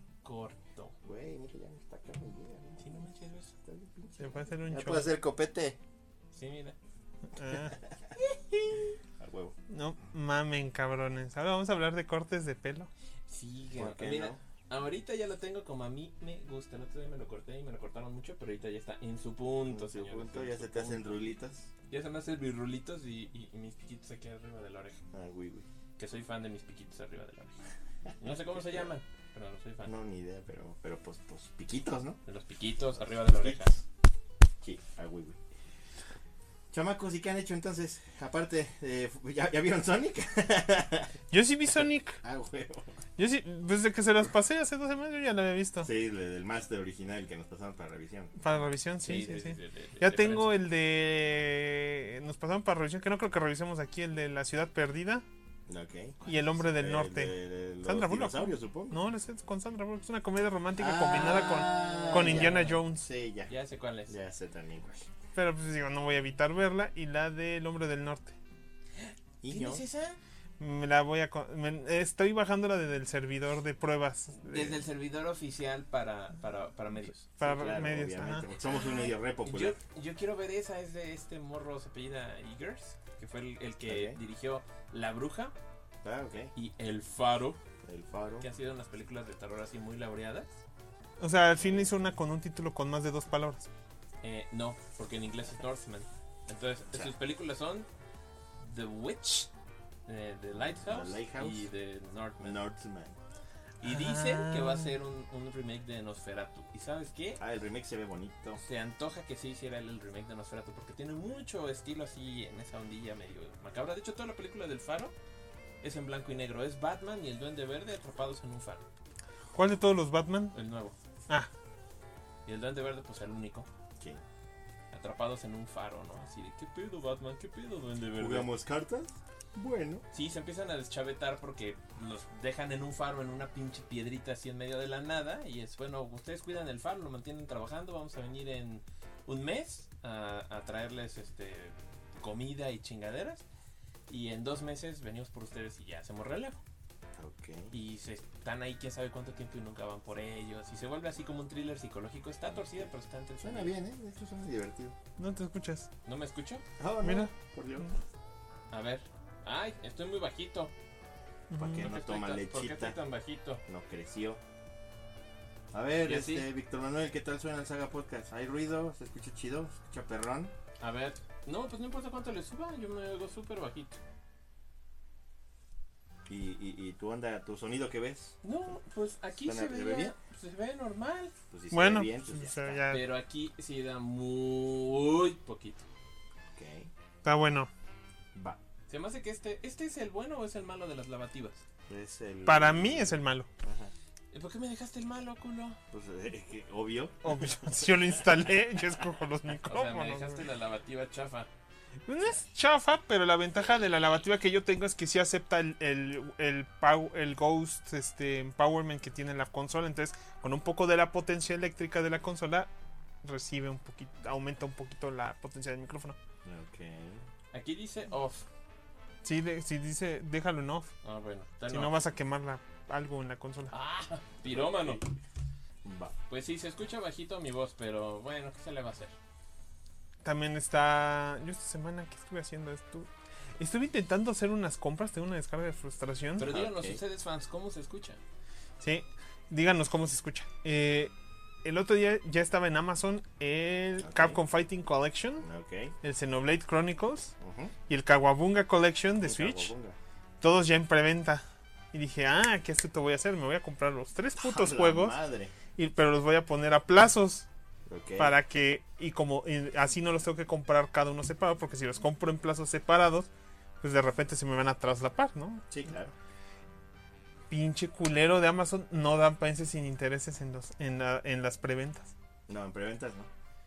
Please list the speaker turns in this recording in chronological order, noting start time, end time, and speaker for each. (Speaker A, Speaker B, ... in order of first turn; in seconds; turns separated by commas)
Speaker A: 0.2-1.0, Speaker B: 1.0-5.8, Speaker A: 2.8-3.5, Speaker C: 4.2-5.2, Speaker A: 6.3-6.8, Speaker C: 7.4-7.8, Speaker B: 9.2-9.6, Speaker C: 9.7-12.9, Speaker A: 13.3-21.3, Speaker B: 13.8-14.4, Speaker B: 19.7-21.7, Speaker A: 21.9-25.0, Speaker B: 25.1-25.7, Speaker A: 26.0-27.6, Speaker A: 28.2-29.9, Speaker B: 28.6-28.9, Speaker B: 29.9-32.2, Speaker A: 32.3-33.7, Speaker B: 33.0-33.8, Speaker B: 34.6-35.4, Speaker B: 36.7-41.2, Speaker C: 41.3-42.2, Speaker B: 41.8-43.0, Speaker C: 43.2-45.9, Speaker B: 45.8-48.4, Speaker C: 48.4-55.2, Speaker A: 49.0-50.6, Speaker B: 55.7-59.0, Speaker C: 56.2-63.1, Speaker B: 60.8-63.5, Speaker A: 61.2-62.8, Speaker A: 63.5-64.2, Speaker B: 64.1-65.1, Speaker C: 65.3-68.4, Speaker A: 69.0-70.2, Speaker B: 69.4-69.8, Speaker C: 70.6-74.8, Speaker A: 74.4-77.3, Speaker C: 77.2-78.5, Speaker B: 77.4-79.8, Speaker A: 79.4-85.5, Speaker B: 83.8-84.2, Speaker B: 86.0-86.5, Speaker A: 86.5-87.6, Speaker B: 87.8-88.5, Speaker A: 88.4-90.5, Speaker C: 91.2-93.7, Speaker B: 91.6-91.9, Speaker A: 94.2-97.9, Speaker A: 98.6-99.5, Speaker A: 100.1-102.6, Speaker B: 100.8-101.7, Speaker B: 102.4-103.2, Speaker A: 103.8-107.4, Speaker C: 103.8-104.8, Speaker B: 107.4-108.6, Speaker A: 108.6-115.1, Speaker A: 115.8-118.8, Speaker C: 119.5-120.5, Speaker A: 120.5-121.0, Speaker A: 122.5-123.7, Speaker A: 124.9-128.5, Speaker B: 128.1-130.0, Speaker A: 130.1-143.4, Speaker A: 144.1-146.6, Speaker B: 147.2-147.7, Speaker A: 147.7-153.7, Speaker B: 153.4-155.0, Speaker C: 155.2-155.9, Speaker A: 156.1-156.7, Speaker B: 156.8-157.9, Speaker C: 157.0-157.3, Speaker A: 158.7-160.7, Speaker C: 161.5-161.9, Speaker B: 161.6-163.0, Speaker A: 161.8-163.6, Speaker B: 163.7-164.4, Speaker B: 165.7-170.6, Speaker A: 166.1-166.5, Speaker A: 170.8-174.0, Speaker B: 176.3-178.4, Speaker A: 178.4-181.3, Speaker B: 179.4-180.2, Speaker B: 181.5-182.8, Speaker C: 181.7-183.0, Speaker A: 182.9-185.8, Speaker B: 186.5-186.9, Speaker C: 187.2-187.7, Speaker B: 188.3-188.6, Speaker A: 188.9-191.7, Speaker B: 191.9-193.9, Speaker C: 192.5-193.5, Speaker A: 194.3-195.8, Speaker B: 195.9-199.0, Speaker C: 197.2-200.4, Speaker A: 199.7-201.5, Speaker C: 202.1-212.7, Speaker C: 213.2-216.2, Speaker B: 216.4-217.2, Speaker A: 217.5-218.5, Speaker C: 219.2-220.9, Speaker A: 221.0-222.0, Speaker C: 221.7-223.7, Speaker A: 223.7-225.0, Speaker B: 224.4-225.1, Speaker B: 225.8-226.2, Speaker A: 226.3-229.1, Speaker C: 230.2-236.5, Speaker A: 236.4-238.2, Speaker B: 236.4-237.0, Speaker C: 238.8-241.1, Speaker C: 241.6-245.4, Speaker B: 244.0-244.4, Speaker B: 245.4-245.9, Speaker C: 246.0-247.3, Speaker B: 247.4-247.7, Speaker C: 247.9-249.7, Speaker B: 249.2-250.0, Speaker C: 250.4-255.2, Speaker B: 254.4-255.6, Speaker C: 255.8-257.5, Speaker B: 257.9-258.4, Speaker C: 258.2-263.3, Speaker C: 263.8-265.6, Speaker B: 265.7-266.1, Speaker C: 267.5-272.1, Speaker B: 272.5-273.3